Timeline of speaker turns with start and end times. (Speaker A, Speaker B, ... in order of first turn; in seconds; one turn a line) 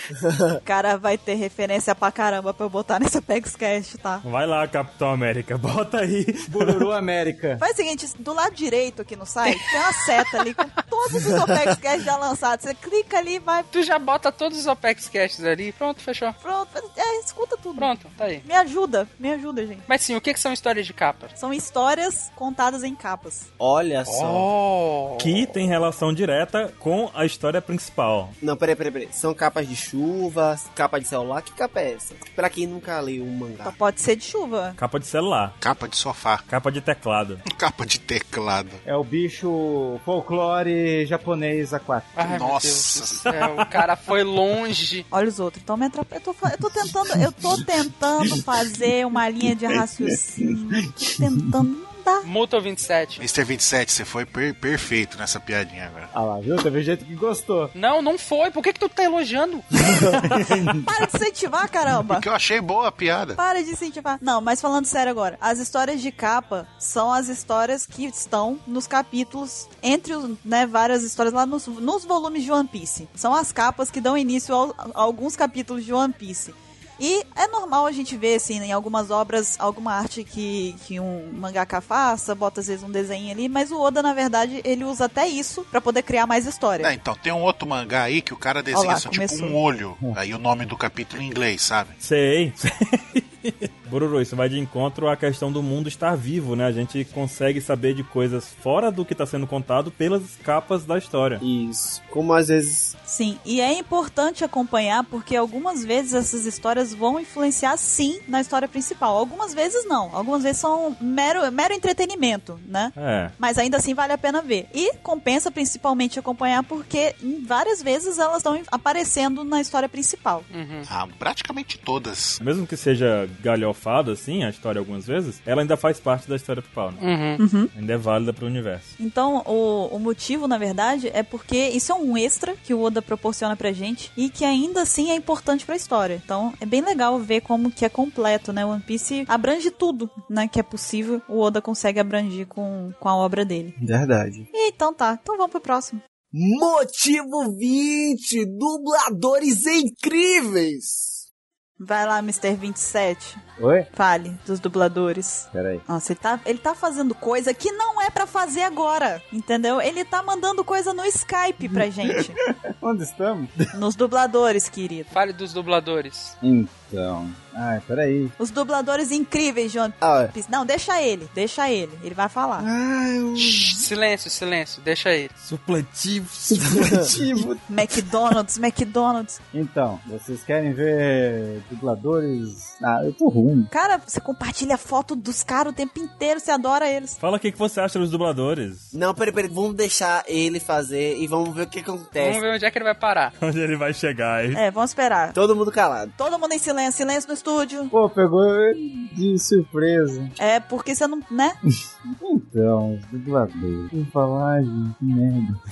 Speaker A: 0.3-0.6
Speaker B: 0.7-4.2
Speaker C: 4.2-6.9
Speaker D: 6.5-7.6
Speaker B: 7.6-13.7
Speaker E: 9.4-10.6
Speaker E: 13.7-16.4
Speaker B: 16.4-19.9
Speaker E: 17.8-18.4
Speaker E: 19.9-21.3
Speaker B: 21.4-23.5
Speaker A: 23.6-24.5
Speaker E: 24.1-25.5
Speaker C: 25.2-28.4
Speaker A: 28.4-33.8
Speaker B: 33.6-34.8
Speaker C: 34.8-35.6
Speaker F: 35.6-36.4
Speaker C: 36.5-37.4
Speaker F: 37.5-38.8
Speaker D: 38.9-42.1
Speaker E: 42.1-45.1
Speaker F: 42.2-43.3
Speaker B: 45.1-52.3
Speaker D: 47.3-47.6
Speaker D: 49.8-51.5
Speaker E: 52.2-53.2
Speaker F: 53.2-56.1
Speaker D: 56.1-57.7
Speaker E: 57.7-59.7
Speaker D: 60.0-60.9
Speaker B: 60.9-62.2
Speaker F: 62.1-63.4
Speaker B: 63.4-86.9
Speaker F: 86.8-92.0
Speaker B: 88.7-89.6
Speaker C: 92.0-101.4
Speaker A: 101.4-103.0
Speaker B: 103.1-120.5
Speaker C: 113.0-113.3
Speaker E: 120.5-120.9
Speaker F: 120.9-122.4
Speaker C: 122.4-127.0
Speaker E: 127.0-127.4
Speaker B: 127.4-127.7
Speaker C: 127.7-128.9
Speaker B: 129.0-143.8
Speaker A: 143.8-144.5
Speaker B: 144.5-146.0
Speaker A: 146.3-151.2
Speaker B: 151.8-153.4
Speaker D: 153.6-153.9
Speaker B: 153.9-162.4
Speaker D: 155.5-155.8
Speaker D: 161.6-163.6
Speaker B: 163.7-165.2
Speaker E: 165.1-166.4
Speaker D: 166.4-168.3
Speaker B: 168.4-172.7
Speaker A: 170.0-170.3
Speaker A: 172.6-173.8
Speaker E: 173.4-175.4
Speaker C: 175.5-176.4
Speaker D: 176.5-177.7
Speaker A: 176.6-177.1
Speaker B: 177.7-179.4
Speaker D: 179.5-183.7
Speaker B: 183.7-187.2
Speaker C: 187.2-188.9
Speaker A: 188.9-192.4
Speaker E: 192.2-193.3
Speaker C: 193.4-194.6
Speaker B: 194.6-195.4
Speaker A: 195.3-196.2
Speaker B: 196.2-197.9
Speaker D: 197.9-200.3
Speaker B: 200.4-201.6
Speaker D: 202.1-205.6